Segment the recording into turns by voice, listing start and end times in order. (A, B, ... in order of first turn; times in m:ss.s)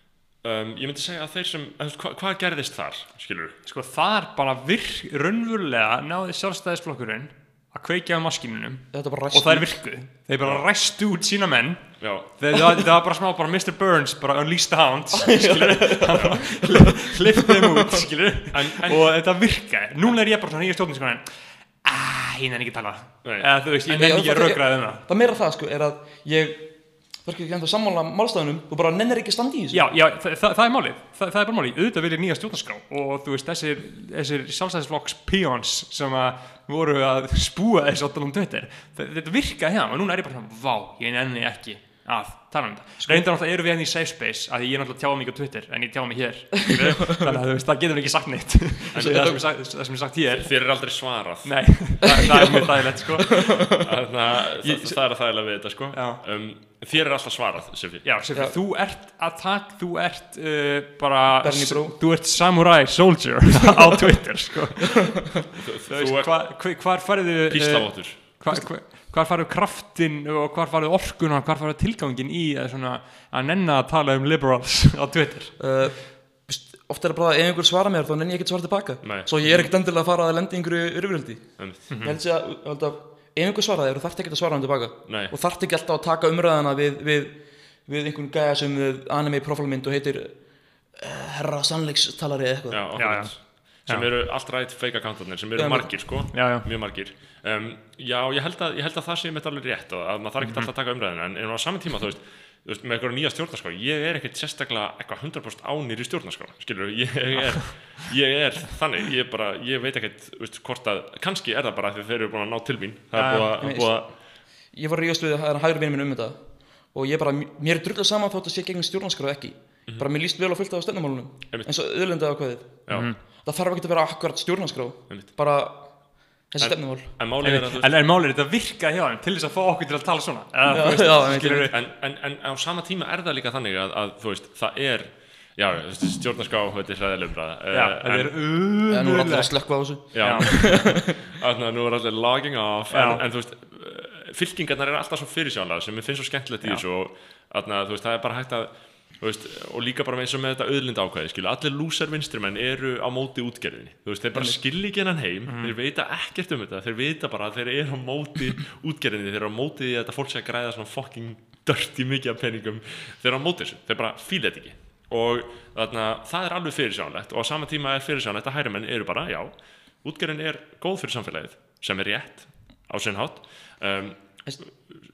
0:00.4-0:03.6 A
0:03.6-0:25.0 B
0:08.9-0:09.9 C
0:12.0-0:12.3 A
0:15.2-0:18.1 C
0:16.1-0:16.4 A
0:18.5-0:19.0 A
0:23.2-0:23.5 A
0:23.9-0:29.9 C
0:29.7-0:53.7 B
0:43.0-0:43.3 C
0:46.8-0:47.2 C
0:48.9-0:49.6 A
0:49.0-0:49.4 C
0:50.3-0:51.8 A
0:52.2-0:52.7 C
0:53.4-0:53.7 C
0:53.8-0:58.1 A
0:54.6-0:55.0 C
0:55.9-0:56.2 B
0:58.0-1:15.9 B
0:58.3-0:58.6 C
1:01.4-1:02.0 C
1:05.6-1:06.6 A
1:07.5-1:08.2 A
1:08.5-1:08.7 C
1:15.6-1:30.4 C
1:19.0-1:19.7 A
1:21.6-1:21.9 A
1:21.9-1:22.2 B
1:25.1-1:25.3 A
1:30.9-1:32.8 C
1:32.7-1:54.1 A
1:33.0-1:34.1 B
1:35.6-1:36.3 C
1:36.3-1:36.7 B
1:40.4-1:40.7 B
1:47.5-1:47.8 B
1:53.1-1:53.6 B
1:53.6-2:07.2 C
2:02.9-2:03.1 A
2:02.9-2:03.2 B
2:06.6-2:08.0 A
2:07.4-2:11.7 B
2:10.7-2:11.7 C
2:11.7-2:18.4 A
2:17.7-2:20.9 B
2:18.9-2:21.1 C
2:20.1-2:54.7 A
2:22.9-2:23.2 B
2:34.3-2:34.6 C
2:35.5-2:35.8 B
2:54.4-2:54.8 C